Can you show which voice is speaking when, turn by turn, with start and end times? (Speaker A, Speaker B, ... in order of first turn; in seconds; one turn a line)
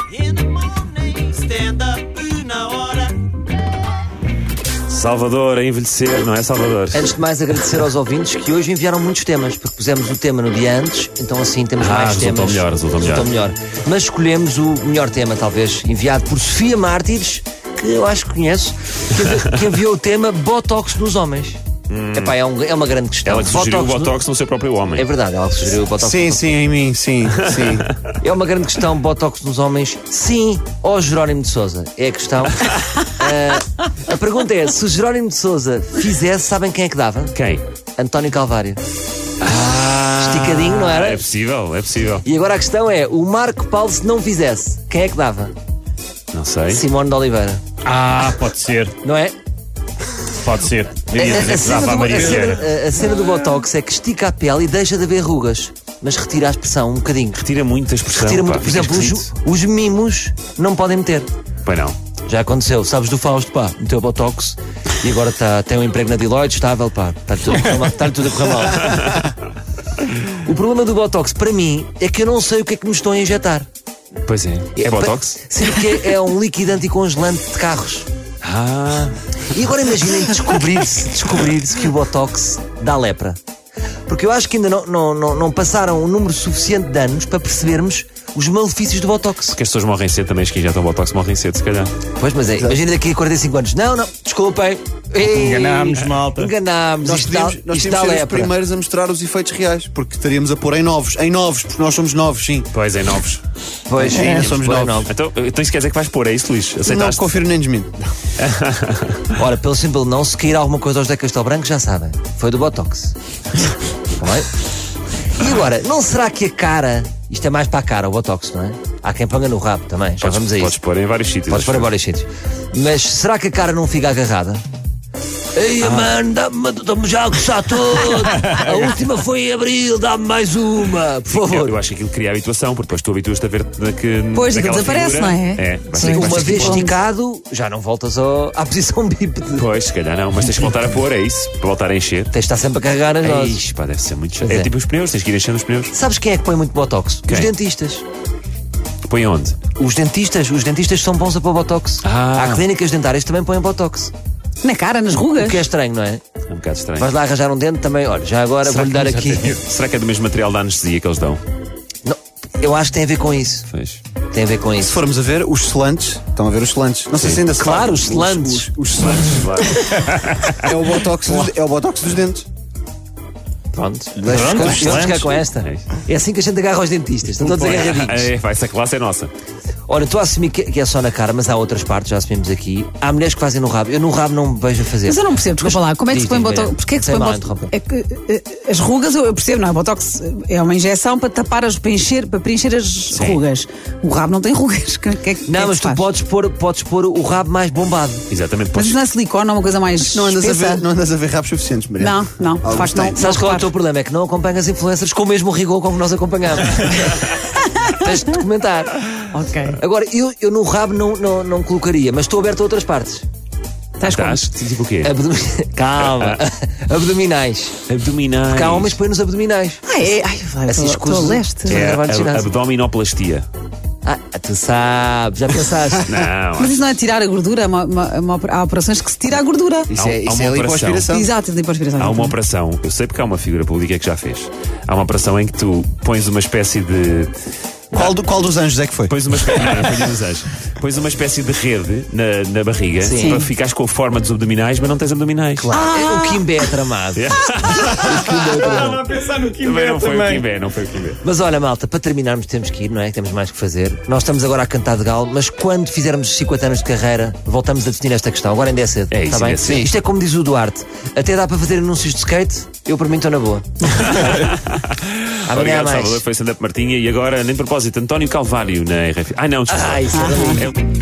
Speaker A: 0.2-3.3
Speaker B: 4.9-7.2
Speaker C: 6.9-21.6
Speaker B: 11.8-13.3
Speaker B: 21.9-22.3
Speaker C: 22.1-24.2
Speaker B: 23.2-25.1
Speaker C: 24.9-26.6
Speaker D: 26.0-27.9
Speaker B: 27.6-27.9
Speaker C: 28.2-37.4
Speaker B: 37.3-37.6
Speaker C: 38.0-38.8
Speaker B: 39.4-42.2
Speaker C: 40.2-41.2
Speaker C: 42.2-45.5
Speaker B: 46.3-46.8
Speaker C: 46.7-47.6
Speaker E: 47.8-49.0
Speaker C: 49.0-49.4
Speaker E: 50.4-52.7
Speaker C: 51.1-57.4
Speaker B: 57.4-59.3
Speaker C: 58.1-61.3
Speaker B: 61.6-62.0
Speaker C: 62.3-69.3
Speaker B: 68.8-69.3
Speaker C: 70.3-73.7
Speaker B: 74.2-75.4
Speaker C: 74.8-78.1
Speaker B: 78.4-79.2
Speaker C: 79.5-83.4
Speaker C: 84.1-89.6
Speaker B: 89.5-91.9
Speaker C: 92.2-98.5
Speaker E: 95.2-96.5
Speaker D: 97.0-102.7
Speaker B: 102.7-103.4
Speaker C: 103.9-105.1
Speaker D: 104.0-105.1
Speaker B: 105.1-107.3
Speaker D: 106.8-108.0
Speaker B: 108.4-109.3
Speaker C: 109.3-113.2
Speaker C: 114.2-114.5
Speaker C: 115.4-120.8
Speaker B: 120.2-121.9
Speaker C: 121.5-124.6
Speaker C: 125.5-131.8
Speaker B: 125.8-126.1
Speaker B: 131.3-136.8
Speaker F: 134.3-137.0
Speaker C: 135.9-139.7
Speaker B: 139.6-142.3
Speaker C: 142.3-143.6
Speaker B: 143.2-145.9
Speaker C: 144.4-144.7
Speaker C: 145.9-148.1
Speaker B: 147.3-147.5
Speaker B: 149.1-149.6
Speaker C: 149.8-154.1
Speaker B: 152.0-152.6
Speaker F: 154.6-155.7
Speaker C: 155.4-156.2
Speaker B: 156.5-157.1
Speaker C: 157.0-159.6
Speaker E: 158.7-159.6
Speaker B: 159.6-161.4
Speaker C: 162.0-163.7
Speaker B: 163.7-164.0
Speaker C: 164.3-165.0
Speaker D: 164.8-169.5
Speaker B: 167.1-167.4
Speaker C: 167.6-168.7
Speaker B: 169.0-170.8
Speaker D: 170.6-172.5
Speaker C: 173.7-178.3
Speaker D: 174.2-175.0
Speaker E: 174.2-175.4
Speaker B: 175.6-175.8
Speaker B: 177.4-179.3
Speaker C: 179.9-187.7
Speaker F: 185.0-196.1
Speaker B: 193.1-193.4
Speaker C: 195.5-198.2
Speaker B: 198.3-199.0
Speaker F: 198.7-200.9
Speaker D: 200.0-203.2
Speaker F: 202.0-203.7
Speaker C: 203.2-209.0
Speaker F: 209.3-209.8
Speaker C: 209.8-213.3
Speaker F: 214.0-214.5
Speaker B: 214.0-215.1
Speaker C: 215.0-217.8
Speaker B: 216.0-216.4
Speaker B: 217.9-219.0
Speaker C: 218.5-219.8
Speaker F: 219.9-221.8
Speaker C: 220.7-222.5
Speaker B: 221.7-223.5
Speaker C: 224.0-226.2
Speaker B: 226.1-226.8
Speaker F: 226.6-229.9
Speaker D: 229.9-231.3
Speaker B: 229.9-231.2
Speaker F: 231.1-232.3
Speaker B: 232.0-237.3
Speaker B: 237.9-238.2
Speaker D: 237.9-240.0
Speaker B: 239.1-245.7
Speaker C: 243.0-243.4
Speaker F: 243.1-243.5
Speaker C: 245.7-249.0
Speaker F: 245.7-246.6
Speaker B: 247.2-248.3
Speaker E: 248.4-250.5
Speaker B: 249.6-251.2
Speaker C: 251.2-264.4
Speaker B: 259.1-259.9
Speaker B: 264.0-270.8
Speaker C: 265.5-266.2
Speaker C: 269.7-270.7
Speaker F: 270.1-270.6